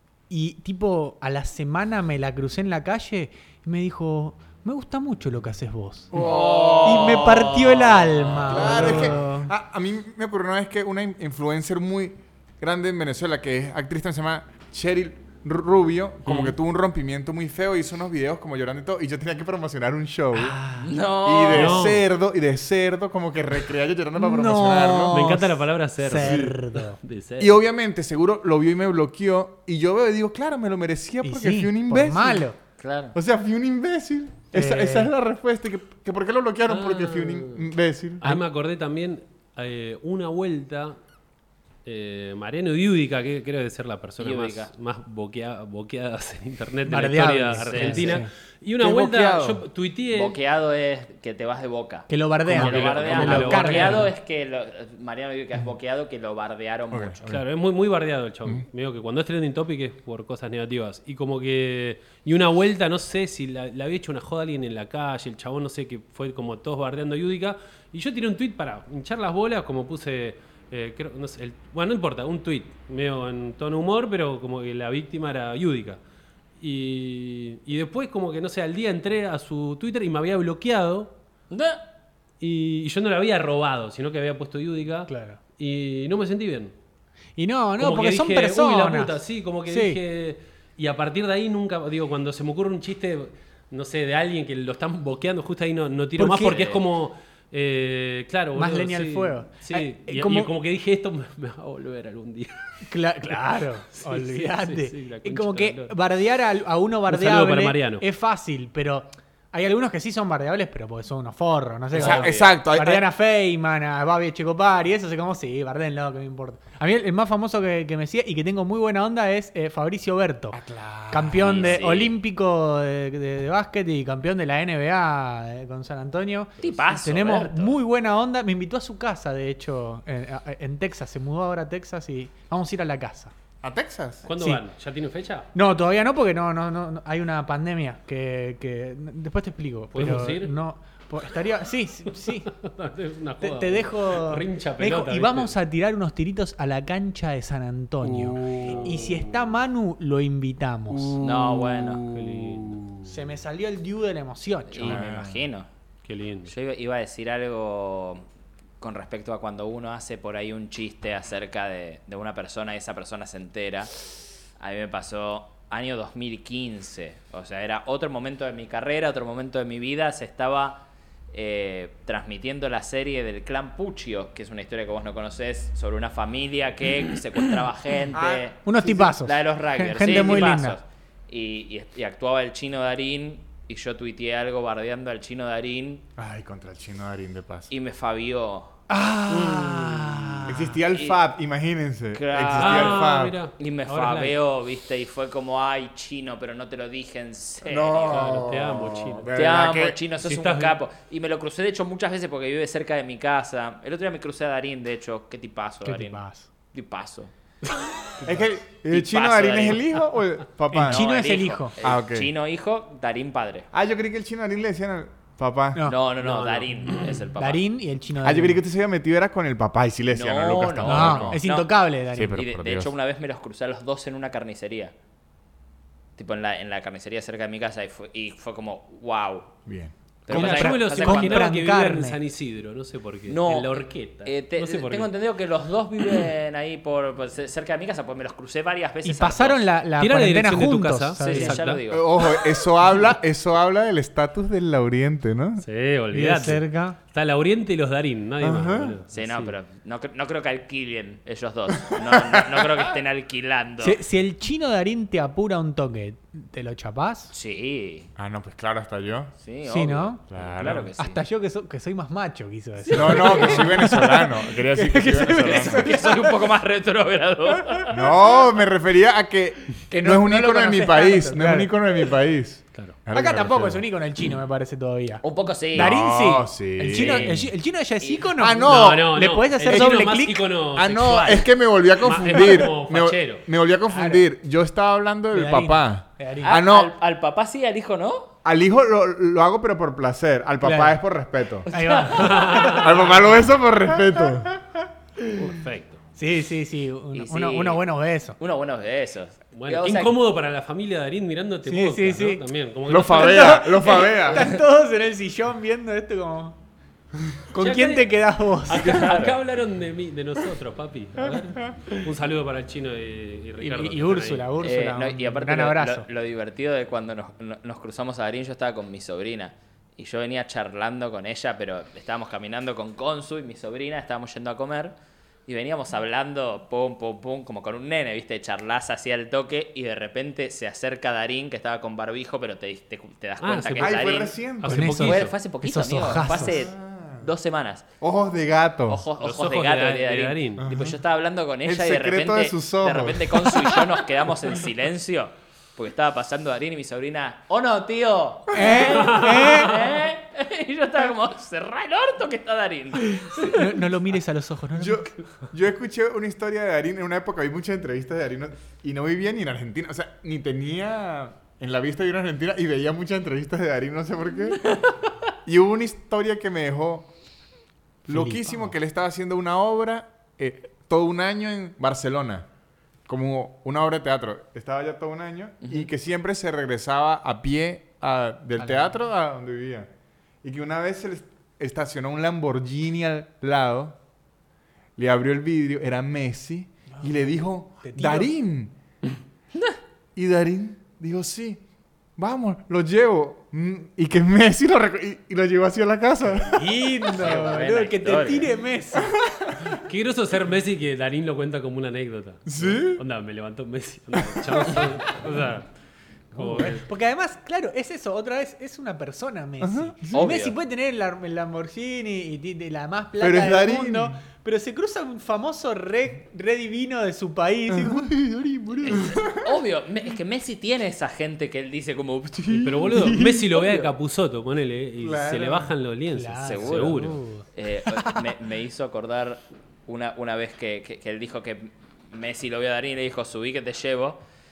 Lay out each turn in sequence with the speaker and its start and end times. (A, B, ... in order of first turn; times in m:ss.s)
0:00.3-0:06.2 A
0:06.1-0:07.7 B
0:06.1-0:08.9 C
0:06.8-0:09.5 A
0:08.4-0:20.6 B
0:16.2-0:16.6 D
0:20.3-0:20.9 A
0:20.8-0:22.0 C
0:21.2-0:25.4 B
0:21.5-0:22.0 D
0:24.1-0:25.5 A
0:25.1-0:27.6 D
0:26.0-0:27.0 A
0:26.2-0:26.6 B
0:27.4-0:32.5 B
0:31.2-0:32.6 A
0:32.8-0:33.2 C
0:33.1-0:38.2 B
0:34.5-0:35.1 A
0:36.7-0:37.7 D
0:38.2-0:41.0 D
0:41.8-0:50.4 D
0:44.2-0:44.7 C
0:46.9-0:48.3 A
0:47.6-0:48.2 C
0:48.8-0:49.6 B
0:50.1-0:57.3 C
0:52.1-0:54.1 A
0:52.5-0:53.5 B
0:52.5-0:54.1 D
0:56.9-0:57.4 B
0:57.2-1:16.0 D
1:16.6-1:21.1 D
1:21.5-1:21.8 C
1:22.4-1:26.7 D
1:25.1-1:25.4 A
1:27.4-1:29.1 A
1:27.8-1:42.7 D
1:29.7-1:30.0 A
1:36.2-1:36.6 A
1:36.2-1:36.8 C
1:38.6-1:40.5 A
1:42.9-2:00.6 A
1:43.9-1:45.9 D
1:47.1-1:48.0 D
1:51.9-1:52.6 C
1:51.9-1:53.1 B
2:00.5-2:01.8 B
2:01.1-2:13.3 A
2:01.4-2:02.1 C
2:06.6-2:07.8 C
2:13.6-2:14.3 B
2:14.3-2:15.5 D
2:15.6-2:22.5 A
2:19.9-2:20.6 D
2:22.2-2:25.5 D
2:23.4-2:31.2 A
2:28.0-2:29.3 B
2:28.5-2:29.0 D
2:30.9-2:33.1 B
2:31.2-2:32.0 C
2:32.1-2:32.8 D
2:33.0-2:35.0 A
2:34.7-2:35.7 C
2:34.8-2:35.4 B
2:36.0-2:36.5 D
2:36.4-2:38.2 C
2:38.8-2:44.0 C
2:44.6-3:06.1 C
2:58.1-2:59.1 B
2:58.6-3:00.8 A
3:06.2-3:07.7 B
3:07.7-3:08.8 C
3:08.9-3:10.7 A
3:10.4-3:13.4 B
3:10.9-3:11.2 C
3:12.1-3:18.4 C
3:12.5-3:14.3 D
3:17.6-3:20.0 B
3:18.0-3:19.3 D
3:19.3-3:26.2 C
3:20.2-3:20.8 D
3:25.8-3:26.5 A
3:26.7-3:27.3 C
3:28.2-3:31.1 B
3:28.9-3:30.0 C
3:30.7-3:31.7 A
3:30.8-3:33.7 C
3:31.8-3:32.3 B
3:33.7-3:35.9 B
3:35.8-3:37.6 C
3:36.2-3:37.2 D
3:37.4-3:38.6 A
3:38.2-3:41.4 B
3:40.1-3:41.7 C
3:40.8-3:42.4 A
3:42.1-3:43.0 B
3:42.3-3:44.9 C
3:46.2-3:49.5 C
3:49.6-3:49.9 B
3:50.2-3:51.5 C
3:50.3-3:55.1 D
3:50.3-3:52.2 A
3:53.3-3:59.6 C
3:59.0-4:01.6 A
4:00.0-4:01.8 D
4:01.2-4:02.1 C
4:01.9-4:05.6 B
4:05.6-4:09.6 D
4:06.1-4:07.0 A
4:08.4-4:09.0 B
4:09.1-4:14.0 C
4:11.8-4:12.9 B
4:13.8-4:17.3 A
4:17.3-4:18.1 C
4:18.2-4:19.3 B
4:19.4-4:21.2 C
4:19.6-4:26.5 A
4:20.3-4:20.9 B
4:22.8-4:23.7 C
4:22.9-4:26.0 B
4:25.4-4:28.0 C
4:27.9-4:33.8 B
4:29.9-4:31.7 A
4:32.7-4:33.4 D
4:33.1-4:40.4 A
4:35.2-4:35.9 C
4:35.7-4:37.4 B
4:36.9-4:37.4 C
4:38.0-4:38.3 C
4:38.4-4:39.1 B
4:38.6-4:43.4 D
4:39.6-4:40.2 B
4:40.7-4:46.9 B
4:43.9-4:44.2 A
4:45.3-4:46.6 A
4:46.4-4:48.3 C
4:48.4-4:51.7 B
4:50.6-4:51.0 A
4:51.7-4:52.6 C
4:51.7-4:53.2 A
4:52.0-4:53.2 D
4:52.7-4:54.5 B
4:55.4-4:56.0 D
4:56.2-4:58.4 A
4:57.1-5:00.1 C
4:59.5-5:03.6 D
5:01.6-5:02.4 A
5:02.9-5:04.5 B
5:03.0-5:06.6 A
5:07.5-5:09.0 A
5:07.5-5:14.5 D
5:08.8-5:09.4 C
5:11.4-5:11.8 B
5:13.6-5:16.0 A
5:14.6-5:34.4 C
5:33.4-5:34.0 D
5:33.8-5:34.9 B
5:34.6-5:35.3 D
5:34.6-5:36.6 A
5:35.0-5:37.9 C
5:36.3-5:37.3 B
5:38.0-5:39.0 B
5:38.9-5:53.8 C
5:39.2-5:40.6 D
5:40.6-5:41.0 B
5:41.6-5:44.0 B
5:48.5-5:49.8 A
5:48.7-5:50.0 D
5:53.4-5:55.1 A
5:54.8-6:04.6 B
6:05.5-6:07.1 B
6:08.0-6:12.5 B
6:08.1-6:08.8 A
6:13.1-6:19.9 B
6:15.6-6:15.9 C
6:18.6-6:19.0 A
6:20.4-6:24.0 B
6:25.0-6:28.7 B
6:26.9-6:28.3 A
6:30.2-6:31.6 B
6:32.2-6:37.2 B
6:36.2-6:39.2 A
6:37.1-6:38.5 C
6:39.0-6:39.6 B
6:39.7-6:45.7 D
6:42.5-6:43.0 B
6:44.1-6:44.9 B
6:46.3-6:46.9 D
6:46.4-6:58.1 A
6:49.6-6:50.3 B
6:50.1-6:50.5 C
6:53.2-6:54.2 B
6:57.7-6:59.6 B
6:58.8-7:02.9 C
7:02.5-7:03.2 B
7:02.5-7:07.2 D
7:02.9-7:03.6 A
7:05.0-7:05.7 B
7:06.1-7:08.2 A
7:06.4-7:14.2 C